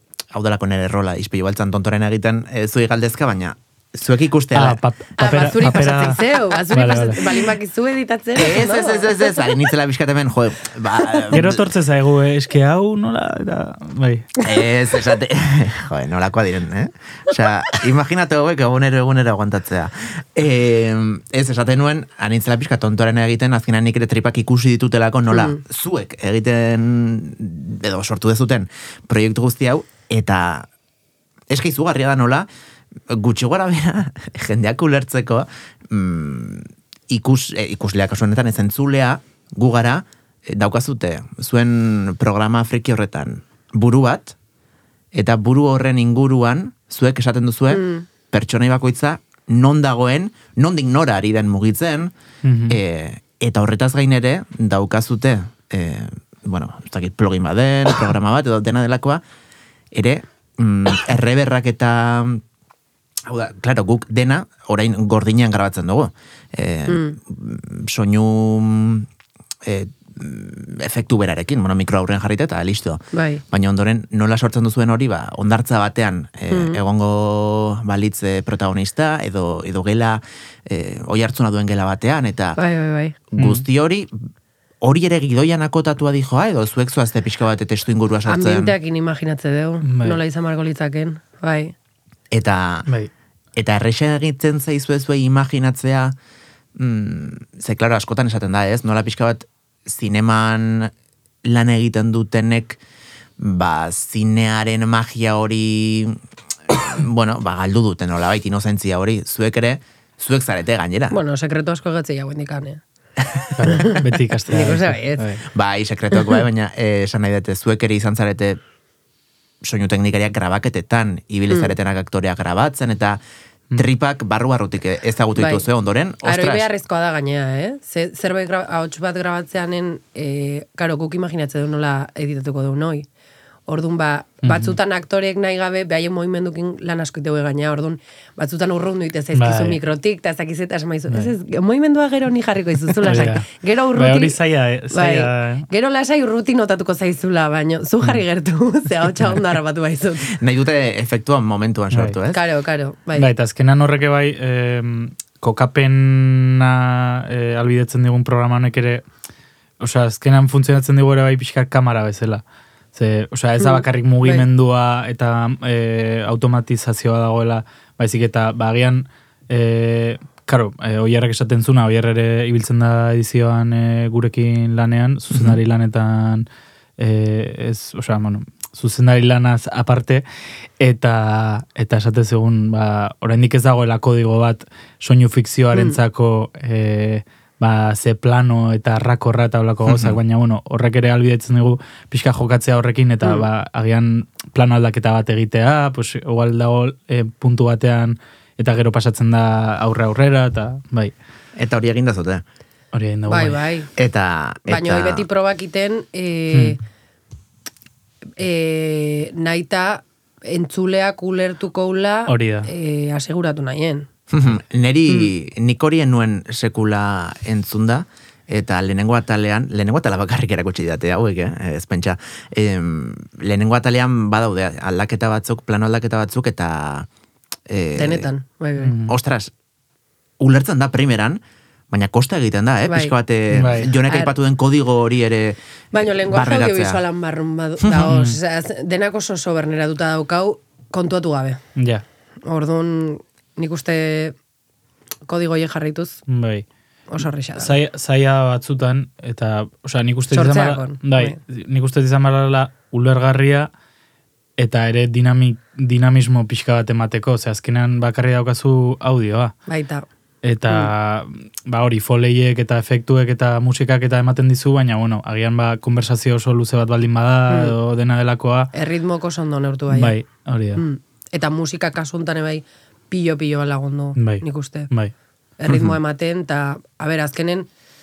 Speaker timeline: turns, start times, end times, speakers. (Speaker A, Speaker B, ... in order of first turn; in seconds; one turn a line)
Speaker A: 0.3-4.8
Speaker B: 4.5-7.2
Speaker C: 5.2-9.3
Speaker A: 8.3-11.7
Speaker B: 11.3-14.3
Speaker A: 14.4-30.7
Speaker C: 25.3-25.6
Speaker A: 31.5-32.5
Speaker A: 33.1-44.3
Speaker A: 45.1-52.1
Speaker C: 47.7-48.0
Speaker B: 52.4-52.8
Speaker A: 52.7-59.2
Speaker A: 59.9-62.4
Speaker A: 63.3-69.1
Speaker C: 66.9-67.2
Speaker A: 69.6-82.6
Speaker C: 73.1-73.4
Speaker C: 76.5-76.8
Speaker C: 82.6-83.2
Speaker A: 83.3-84.1
Speaker B: 83.4-83.6
Speaker A: 84.8-88.7
Speaker C: 88.3-91.7
Speaker B: 89.8-90.2
Speaker A: 92.3-92.9
Speaker A: 93.5-96.1
Speaker A: 96.8-100.9
Speaker A: 101.4-102.8
Speaker A: 103.4-106.2
Speaker A: 106.7-111.2
Speaker C: 111.1-112.8
Speaker B: 113.6-115.4
Speaker C: 113.9-115.3
Speaker A: 115.5-118.6
Speaker C: 116.1-116.4
Speaker A: 119.6-123.2
Speaker C: 121.5-121.7
Speaker A: 123.7-126.7
Speaker C: 125.4-125.6
Speaker C: 126.2-133.1
Speaker C: 133.7-144.4
Speaker B: 134.4-134.8
Speaker B: 139.3-139.8
Speaker B: 143.0-145.7
Speaker C: 144.9-150.3
Speaker A: 150.3-152.4
Speaker C: 152.3-153.3
Speaker B: 153.2-159.0
Speaker B: 159.8-162.4
Speaker B: 162.9-180.2
Speaker C: 163.6-164.5
Speaker A: 175.3-175.6
Speaker B: 180.8-201.1
Speaker A: 189.9-190.2
Speaker A: 201.6-202.4
Speaker B: 202.9-203.6
Speaker C: 203.3-203.9
Speaker A: 204.0-205.2
Speaker C: 204.7-206.8
Speaker B: 206.5-206.8
Speaker C: 208.4-214.1
Speaker B: 212.3-212.7
Speaker A: 214.3-227.1
Speaker A: 227.7-228.3
Speaker C: 228.0-229.0
Speaker B: 228.8-229.1
Speaker A: 229.1-229.5
Speaker A: 230.4-237.0
Speaker C: 232.9-233.1
Speaker B: 233.5-233.9
Speaker C: 234.1-234.3
Speaker C: 235.9-241.6
Speaker B: 238.1-238.4
Speaker B: 241.8-242.0
Speaker C: 242.4-244.3
Speaker C: 245.3-246.2
Speaker B: 246.3-246.7
Speaker C: 247.1-247.8
Speaker B: 247.2-253.7
Speaker C: 250.3-251.4
Speaker B: 254.6-259.5
Speaker C: 259.7-260.1
Speaker B: 260.4-268.7
Speaker C: 267.5-267.7
Speaker C: 268.7-270.2
Speaker B: 269.9-270.8
Speaker C: 270.8-274.9
Speaker B: 274.1-275.1
Speaker C: 275.6-277.7
Speaker A: 275.7-276.0